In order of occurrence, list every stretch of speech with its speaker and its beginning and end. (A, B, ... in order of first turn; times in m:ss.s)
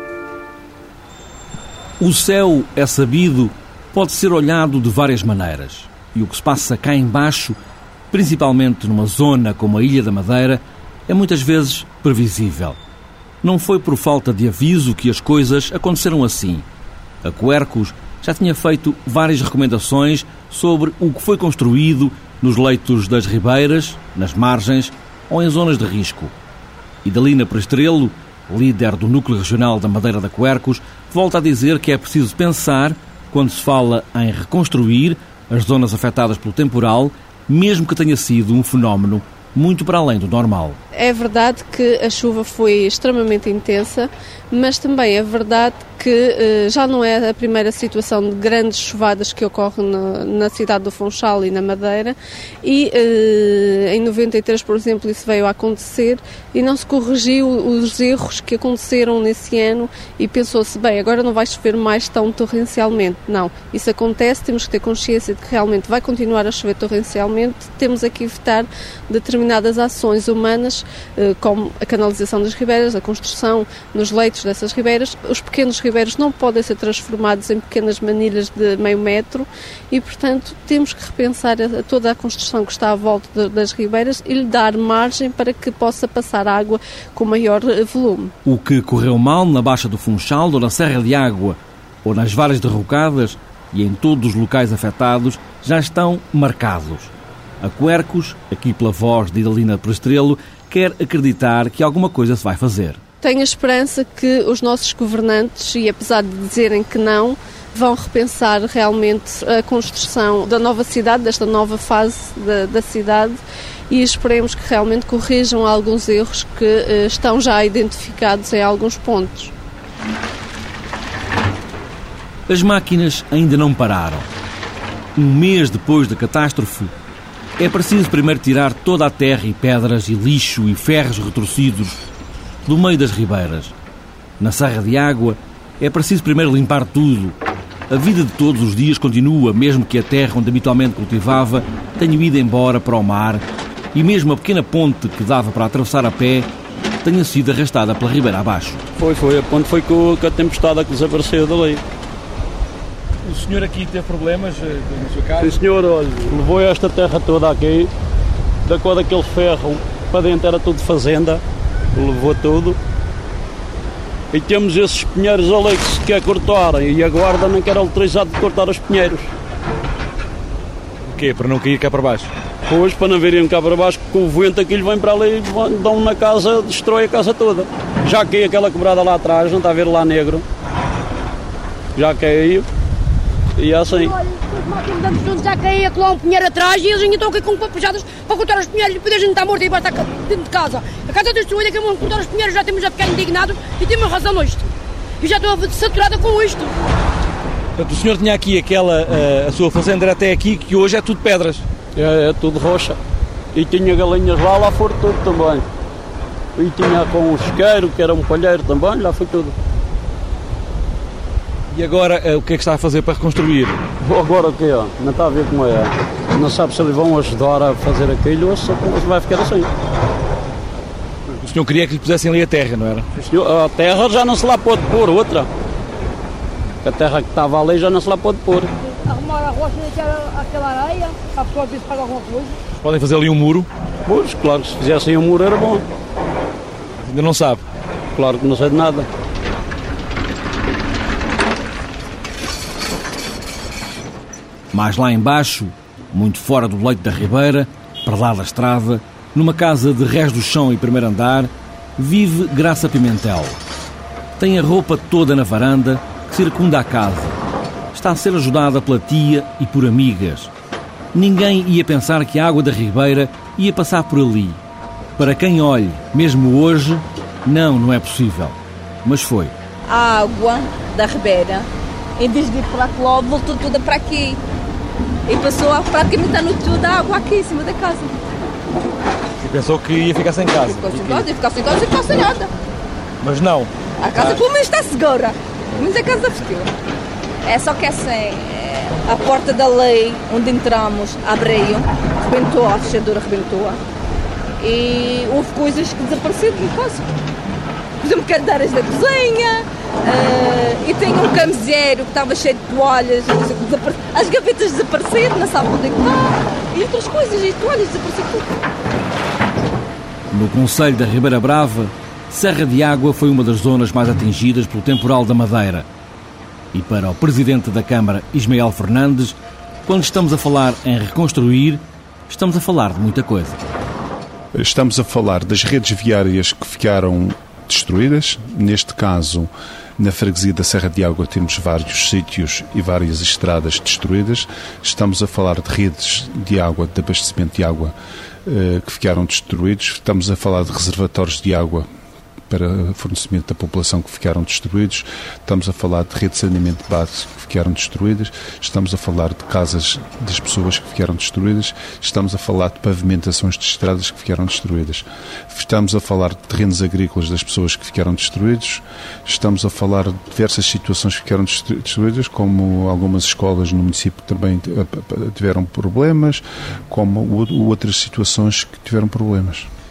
0:02.0-0:07.6 A
0:08.1-0:12.8 A
0:13.4-0:16.7 A
0:17.2-0:26.3 A
0:27.0-0:40.8 A
0:40.9-1:28.3 B
1:28.4-1:43.0 A
1:43.2-1:59.5 B
2:02.5-2:04.3 A
2:05.2-2:06.9 A
2:07.6-2:12.0 A
2:12.6-2:13.7 A
2:14.4-2:17.4 A
2:17.9-2:26.5 A
2:27.0-2:28.8 A
2:29.0-2:31.8 C
2:33.3-2:35.6 D
2:35.4-2:37.9 C
2:38.7-2:41.4 C
2:41.9-2:42.8 C
2:44.3-2:49.3 C
2:51.0-2:52.3 D
2:52.7-3:00.4 C
3:02.0-3:02.7 C
3:03.6-3:04.2 C
3:04.2-3:14.7 E
3:15.2-3:16.7 E
3:17.8-3:21.7 D
3:22.0-3:23.0 C
3:23.5-3:25.6 C
3:26.6-3:29.6 C
3:31.7-3:33.8 D
3:34.0-3:39.7 C
3:41.4-3:43.1 D
3:43.2-3:45.5 C
3:46.8-3:48.7 C
3:49.0-3:52.5 E
3:52.8-3:53.7 D
3:54.1-3:55.8 C
3:57.0-3:57.7 D
3:58.2-3:59.1 C
4:04.7-4:13.6 A
4:14.4-4:17.4 A
4:17.9-4:20.5 A
4:21.1-4:24.6 A
4:25.2-4:29.5 A
4:29.9-4:31.7 F
4:32.2-4:34.4 F
4:35.3-4:38.2 F
4:39.4-4:41.3 D
4:40.6-4:42.5 F
4:43.2-4:44.4 D
4:44.0-4:46.7 F
4:47.4-4:53.8 F
4:54.6-4:57.1 F
4:58.0-5:08.5 F
5:10.3-5:15.9 A
5:16.7-5:23.7 A
5:24.5-5:37.9 G
5:38.4-5:41.9 G
5:42.5-6:09.7 G